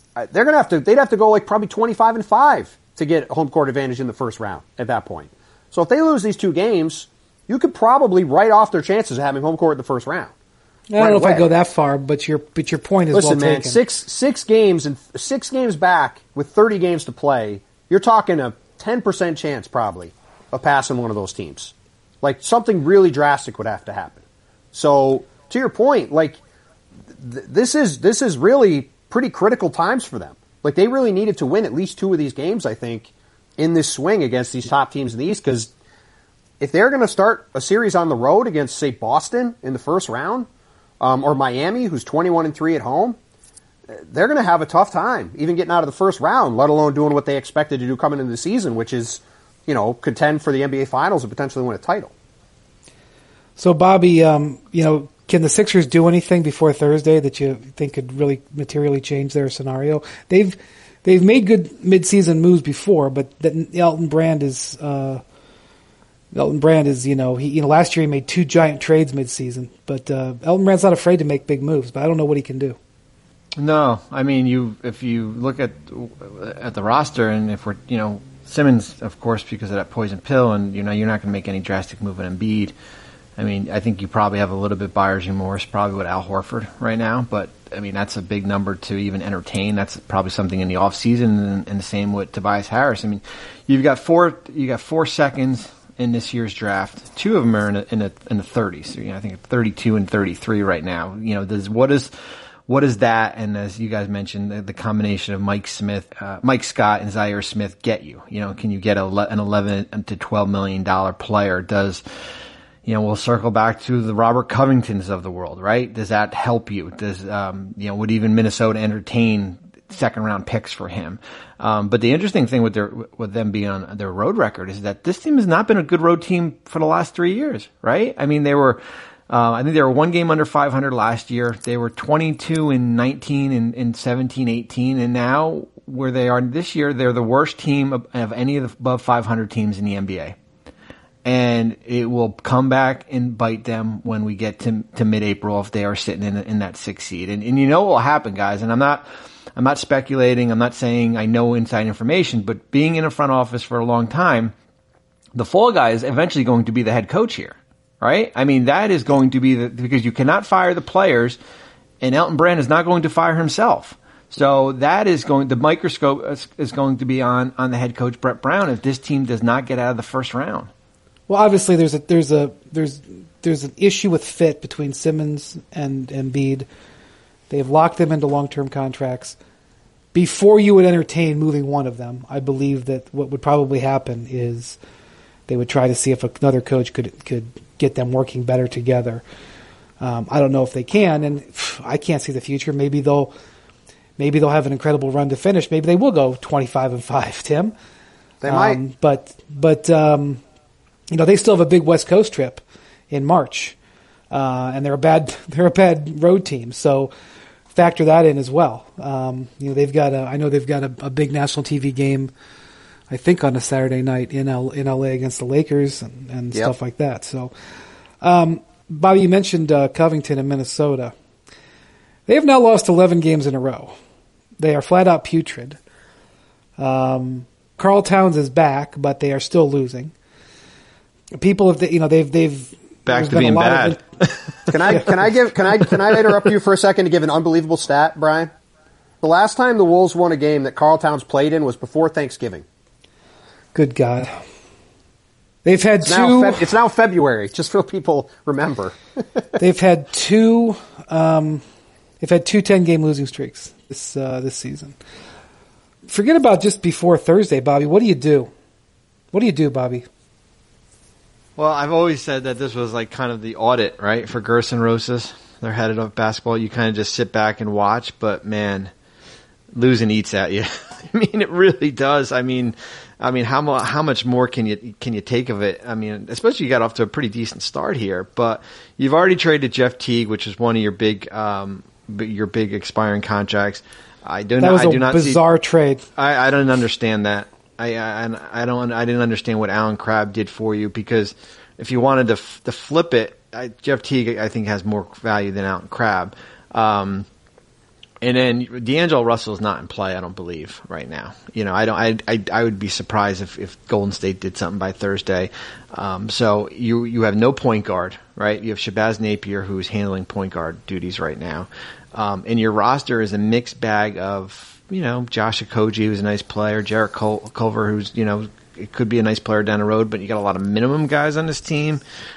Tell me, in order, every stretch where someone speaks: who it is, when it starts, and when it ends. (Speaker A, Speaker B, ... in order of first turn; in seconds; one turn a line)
Speaker A: 0.1-10.3
Speaker B: 10.9-13.8
Speaker A: 11.0-11.4
Speaker A: 13.1-24.2
Speaker A: 24.7-26.4
Speaker A: 27.1-35.7
Speaker A: 36.6-40.5
Speaker A: 41.0-43.2
Speaker A: 43.9-52.1
Speaker B: 53.6-65.2
Speaker B: 66.3-72.8
Speaker C: 73.6-82.7
Speaker C: 83.4-102.1
Speaker C: 102.7-112.0
Speaker C: 112.8-140.3
Speaker C: 141.2-149.0
Speaker C: 149.6-154.5
Speaker C: 155.3-161.4
Speaker C: 162.0-170.7
Speaker B: 171.3-176.7
Speaker B: 177.5-179.4
Speaker B: 180.1-184.8
Speaker B: 185.5-189.2
Speaker B: 190.0-193.3
Speaker B: 194.2-197.7
Speaker A: 198.4-198.8
Speaker B: 198.5-200.4
Speaker B: 201.1-203.8
Speaker B: 204.3-207.1
Speaker B: 207.7-212.3
Speaker B: 213.1-217.5
Speaker B: 218.2-221.1
Speaker B: 222.3-223.9
Speaker B: 224.6-225.8
Speaker B: 226.8-230.1
Speaker B: 231.4-234.0
Speaker C: 233.1-235.1
Speaker A: 234.7-238.5
Speaker A: 239.2-242.6
Speaker B: 243.7-244.4
Speaker B: 245.6-246.7
Speaker A: 246.0-249.0
Speaker B: 249.6-251.6
Speaker B: 252.2-254.9
Speaker B: 256.1-258.5
Speaker B: 259.3-260.1
Speaker C: 261.6-268.9
Speaker C: 269.7-285.4
Speaker B: 284.6-286.0
Speaker C: 286.1-297.3
Speaker C: 298.2-322.0